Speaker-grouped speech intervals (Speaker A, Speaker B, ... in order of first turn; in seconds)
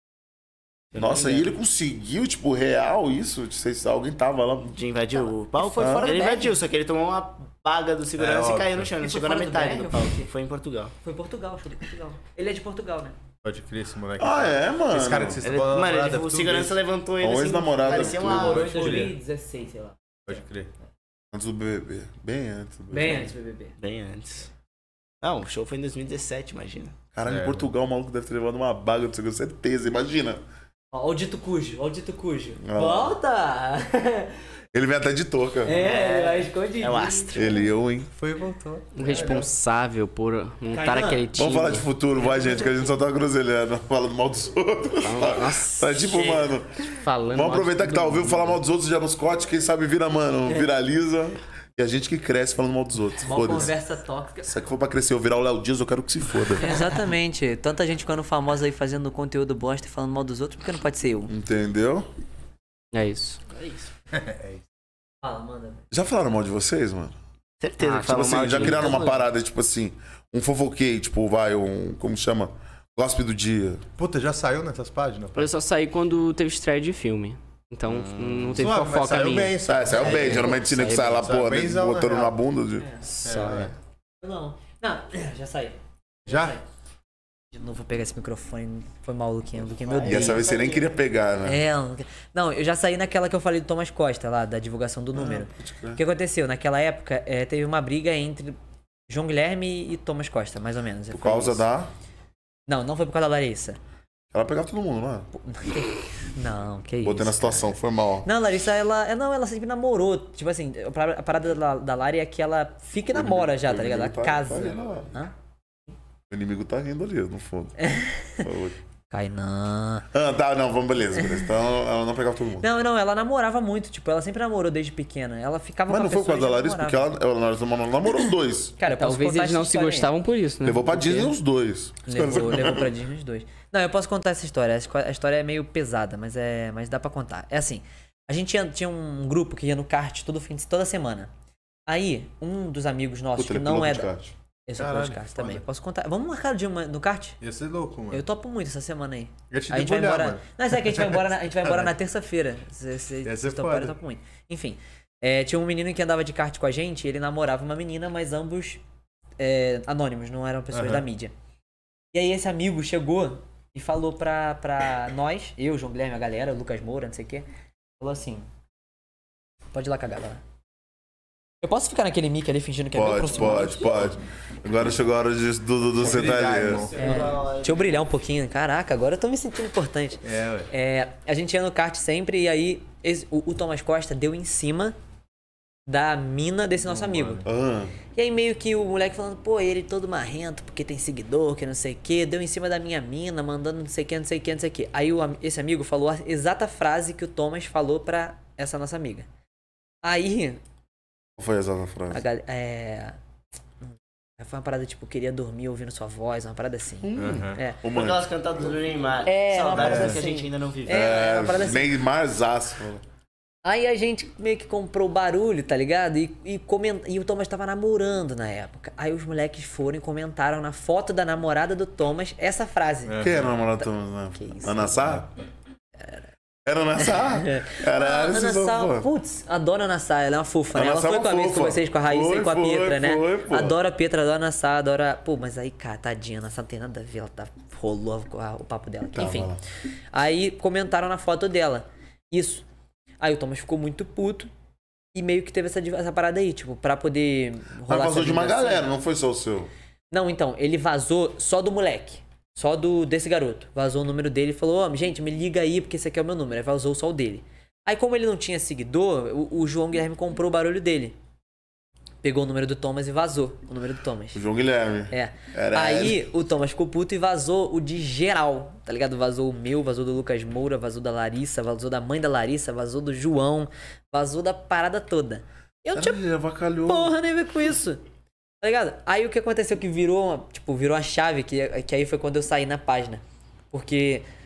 Speaker A: 0.9-1.5, 4.7-10.9, 15.4-19.1, 23.8-24.5, 25.2-26.9, 35.7-37.6, 63.5-63.9, 67.6-69.2, 77.9-78.7, 89.8-90.9, 176.8-178.0, 207.9-211.3
Speaker B: 1.0-4.7, 5.8-6.2, 14.2-15.4, 17.2-18.7, 21.3-23.3, 27.1-30.4, 32.6-33.2, 34.7-35.8, 37.3-38.1, 41.3-53.7, 54.4-56.8, 61.3-62.1, 65.9-67.2, 68.0-73.8, 79.7-82.9, 90.0-91.6, 95.1-96.0, 101.1-101.9, 104.3-105.3, 107.0-108.3, 113.1-115.2, 116.3-117.8, 118.3-118.8, 120.1-122.7, 125.9-128.8, 130.6-132.9, 143.4-144.3, 172.9-176.9, 187.4-187.9, 201.4-202.2, 207.0-208.3, 210.9-213.0, 223.2-225.3, 226.7-229.1, 230.7-233.8, 239.1-239.6, 247.9-249.7, 264.3-266.3, 275.9-277.1
Speaker C: 5.2-6.6, 9.0-10.3, 11.0-13.2, 17.8-20.4, 22.9-23.8, 30.9-34.4, 35.6-37.4, 40.7-41.2, 42.2-42.8, 53.2-54.5, 56.6-61.3, 65.2-65.8, 82.8-83.0, 84.2-86.6, 87.5-90.5, 91.4-98.6, 99.1-101.7, 102.7-103.8, 105.3-115.3, 117.8-118.4, 119.1-120.1, 121.2-121.5, 122.6-127.1, 128.8-130.1, 132.1-141.3, 141.9-144.1, 144.7-147.4, 148.1-158.8, 159.4-161.3, 162.1-167.5, 168.0-168.5, 169.7-170.4, 171.6-174.2, 177.0-184.9, 185.9-187.4, 188.1-199.3, 200.0-200.6, 202.1-203.2, 204.4-207.8, 209.2-211.9, 213.6-223.3, 223.8-225.2, 227.0-239.6, 240.1-242.7, 243.2-244.5, 245.1-248.9, 250.1-261.2, 262.2-264.4, 265.1-276.2, 276.9-278.0, 278.6-284.3
Speaker D: 8.2-8.9, 13.4-16.8, 18.3-19.1, 20.3-20.7, 27.3-27.7, 38.2-39.5, 64.1-64.6, 74.0-75.5, 78.5-82.4, 83.2-83.7, 86.3-86.6, 144.8-145.6, 147.4-148.2, 149.5-151.9, 153.2-154.0, 160.7-161.1, 176.0-177.3, 180.2-180.7, 186.9-187.5, 207.2-207.6, 209.7-210.2, 223.1-223.5
Speaker E: 39.0-41.9, 45.0-48.6, 62.9-63.4, 67.8-69.2, 75.4-81.2, 83.0-83.7, 128.9-131.3